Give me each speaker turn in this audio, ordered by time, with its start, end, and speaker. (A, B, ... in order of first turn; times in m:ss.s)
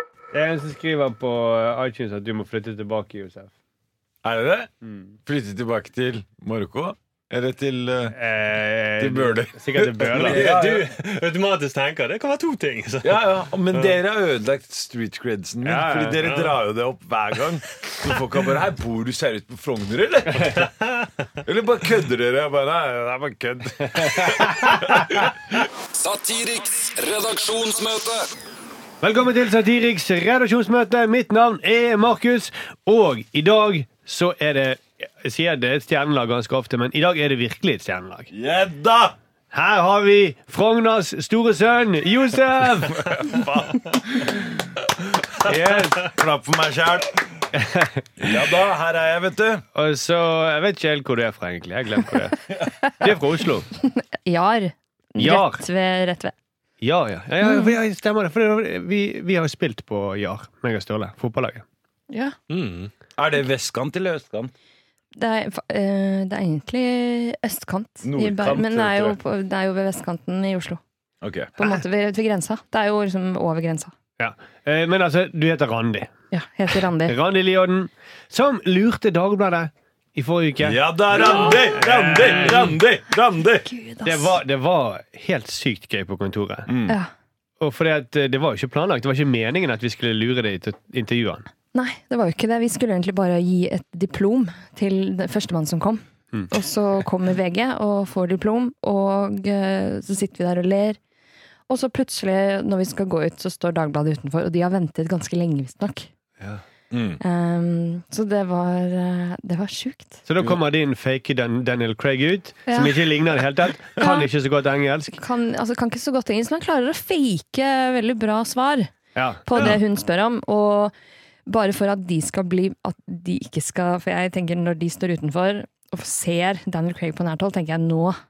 0:00.3-0:03.5 A
0:04.2-0:04.7 B
0:04.8-0:05.1 A
0:05.3-0:08.1 B
0:08.1-0:10.5 A
0:09.0-0:10.9 B
0:10.1-0:14.0 C
0:13.0-0:20.6 B
0:15.6-0:16.2 A
0:16.2-0:16.5 C
0:20.6-0:21.1 C
0:21.4-0:25.2 B
0:24.0-0:25.0 A
0:25.9-0:28.2 D
0:29.0-0:38.3 A
0:38.3-0:39.2 B
0:39.5-0:43.1 A
0:42.6-0:44.7 B
0:45.4-0:46.0 A
0:45.4-0:47.3 B
0:47.5-0:48.0 A
0:48.2-0:49.6 B
0:49.7-0:52.5 A
0:53.0-0:53.7 A
0:53.8-0:56.3 E
0:55.2-0:55.6 A
0:56.8-1:01.6 A
0:57.4-0:57.8 E
1:02.1-1:02.4 E
1:02.5-1:02.9 C
1:03.2-1:04.5 B
1:05.2-1:10.8 E
1:08.0-1:09.2 B
1:11.2-1:11.5 B
1:11.6-1:13.9 E
1:14.2-1:16.1 A
1:16.3-1:17.2 E
1:17.0-1:20.8 A
1:20.6-1:23.7 B
1:21.1-1:22.8 C
1:23.7-1:24.3 E
1:24.0-1:26.7 A
1:26.7-1:27.0 B
1:27.6-1:31.4 A
1:31.7-1:41.0 E
1:41.7-1:46.1 E
1:46.9-1:47.2 B
1:47.2-1:50.2 E
1:50.3-1:55.2 A
1:52.7-1:53.0 E
1:54.0-1:54.3 E
1:55.1-1:58.9 E
1:59.2-1:59.5 A
1:59.4-2:00.9 E
2:01.5-2:08.2 E